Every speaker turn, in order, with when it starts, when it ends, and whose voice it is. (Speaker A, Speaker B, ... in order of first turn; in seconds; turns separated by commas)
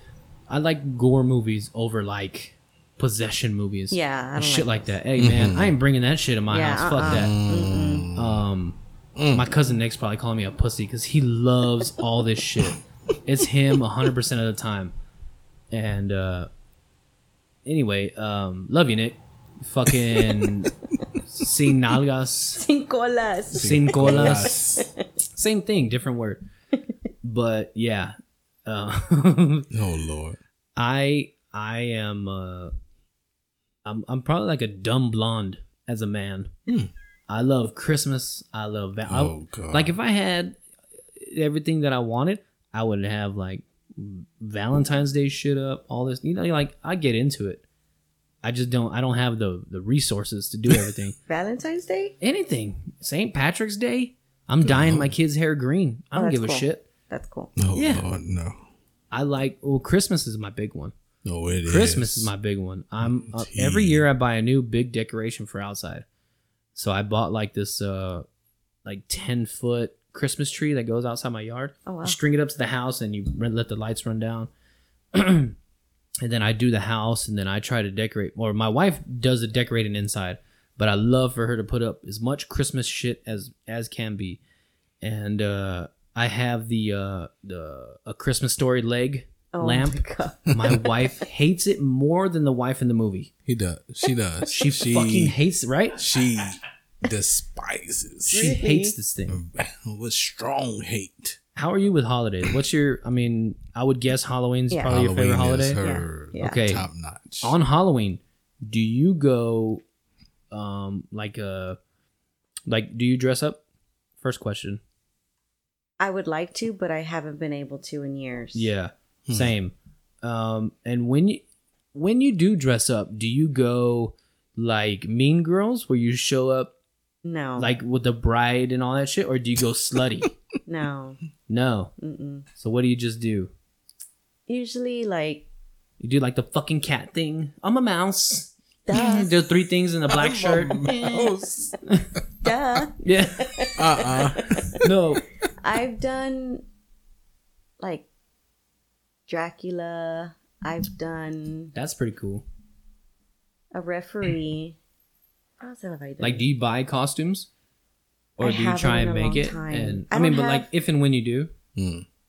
Speaker A: 0.5-7.4, Speaker B: 3.9-4.7, Speaker C: 5.2-5.8, Speaker B: 6.5-8.1, Speaker C: 7.0-8.4, Speaker A: 8.1-8.8, Speaker C: 9.2-9.5, Speaker A: 9.3-14.9, Speaker A: 15.7-16.5, Speaker A: 17.6-20.7, Speaker A: 21.2-22.6, Speaker B: 22.6-25.0, Speaker C: 23.5-24.9, Speaker A: 23.6-24.6, Speaker A: 25.3-26.4, Speaker A: 27.2-28.1, Speaker A: 28.6-29.7, Speaker C: 29.7-30.4, Speaker A: 30.8-32.7, Speaker A: 33.9-36.5, Speaker A: 37.3-40.6, Speaker C: 39.1-39.9, Speaker A: 41.2-47.6, Speaker A: 48.4-51.2, Speaker B: 51.3-52.2, Speaker A: 52.2-56.9, Speaker C: 54.6-55.1, Speaker B: 56.2-57.5, Speaker C: 57.6-58.6, Speaker A: 57.7-58.0, Speaker A: 59.1-60.9, Speaker C: 61.2-62.3, Speaker A: 61.7-66.0, Speaker C: 63.0-64.1, Speaker A: 66.8-68.2, Speaker A: 68.8-74.5, Speaker B: 71.9-72.2, Speaker A: 75.1-75.6, Speaker A: 76.2-84.4, Speaker A: 85.0-93.3, Speaker B: 89.5-90.9, Speaker C: 93.5-95.4, Speaker A: 94.5-96.0, Speaker C: 96.0-98.6, Speaker A: 98.2-99.4, Speaker B: 98.3-99.0, Speaker C: 99.3-101.4, Speaker A: 101.6-105.8, Speaker C: 104.9-107.6, Speaker B: 105.8-106.7, Speaker A: 106.4-106.8, Speaker A: 107.4-109.8, Speaker A: 110.5-111.8, Speaker A: 112.7-113.6, Speaker A: 114.2-114.8, Speaker B: 116.0-118.7, Speaker A: 118.5-121.4, Speaker C: 119.3-119.5, Speaker A: 121.9-126.7, Speaker B: 127.2-127.7, Speaker A: 127.6-130.3, Speaker B: 130.7-131.2, Speaker A: 131.5-131.9, Speaker B: 132.0-132.5, Speaker A: 132.6-133.5, Speaker B: 134.5-135.5, Speaker A: 136.0-140.9, Speaker B: 138.9-139.3, Speaker C: 140.1-141.8, Speaker B: 140.8-141.4, Speaker B: 142.4-144.8, Speaker A: 143.0-143.7, Speaker C: 143.8-144.9, Speaker A: 144.8-145.2, Speaker B: 145.6-146.6, Speaker B: 147.8-148.1, Speaker B: 149.3-151.7, Speaker A: 151.7-152.4, Speaker B: 153.7-154.8, Speaker B: 155.6-156.4, Speaker A: 156.2-157.5, Speaker A: 158.4-161.5, Speaker B: 158.4-160.7, Speaker C: 161.8-162.1